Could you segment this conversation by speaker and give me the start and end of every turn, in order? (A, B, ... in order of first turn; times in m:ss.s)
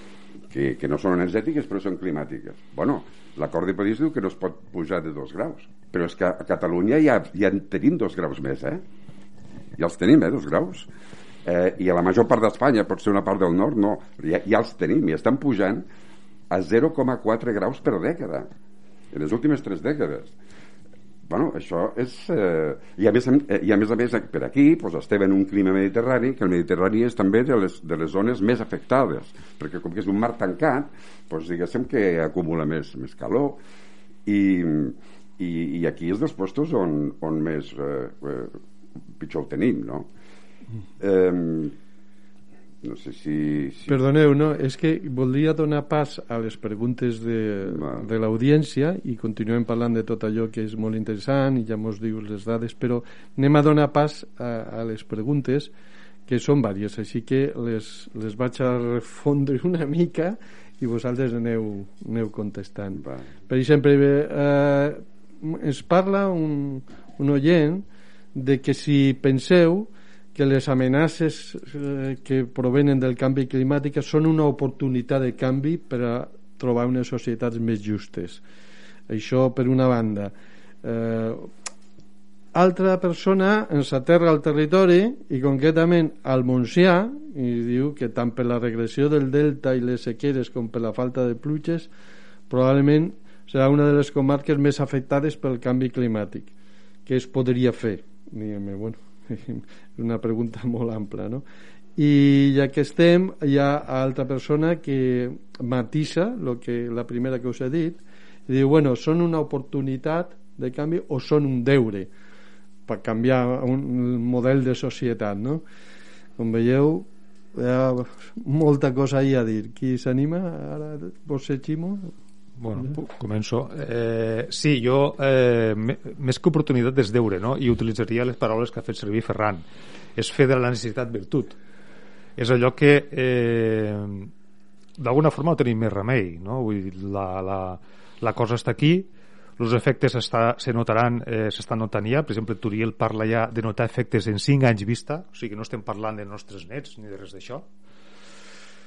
0:00.5-0:08.8 A
0:09.8-0:10.9 A
0:11.4-0:15.8 A
0:16.5-0:18.5 A
0:19.1-0:20.3 A
0:21.3-0:33.6 A
0:34.2-0:38.6 A
0:39.2-0:40.1 A
0:41.0-0:41.7 A
0:42.8-0:44.0 A
0:43.9-0:55.7 B
0:47.7-0:48.0 A
0:56.3-1:18.4 B
1:03.0-1:03.3 A
1:19.1-1:21.5 B
1:22.5-1:31.9 B
1:32.5-1:36.5 B
1:37.0-1:41.4 B
1:42.0-1:52.1 B
1:52.9-1:55.6 B
1:56.4-2:02.1 B
2:02.6-2:09.6 C
2:10.2-2:11.6 C
2:12.4-2:14.3 C
2:15.0-2:27.6 C